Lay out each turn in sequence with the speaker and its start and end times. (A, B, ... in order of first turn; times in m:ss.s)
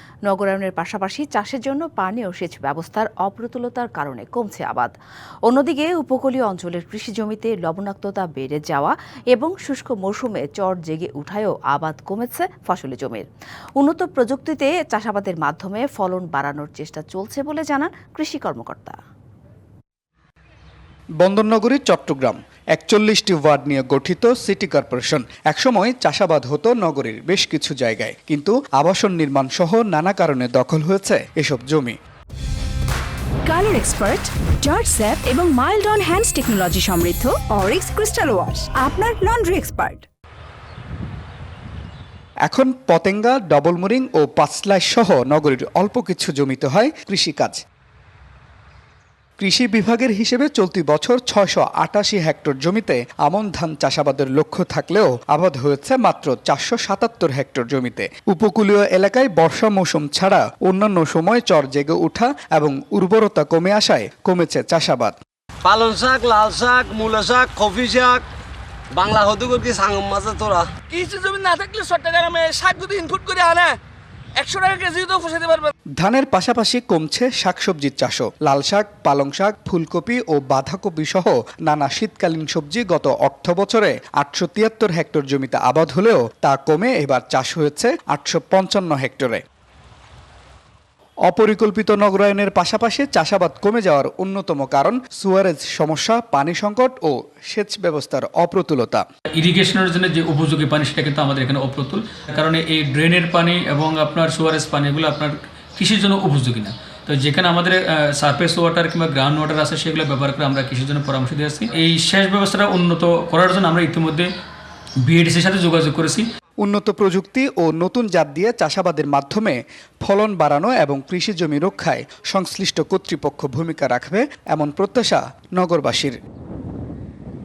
0:00.3-0:04.9 A
0:05.5-0:13.2 A
0:13.8-0:19.0 A
0:21.2-0:31.9 B
0:33.4-0:40.0 C
0:42.4-0:47.6 B
0:49.4-1:05.2 B
1:05.6-1:08.2 D
1:08.9-1:10.7 D
1:10.9-1:13.8 E
1:14.4-1:15.7 E
1:16.0-1:29.4 B
1:31.2-1:39.0 B
1:39.4-1:54.3 F
1:55.0-1:56.2 F
1:56.6-2:06.2 B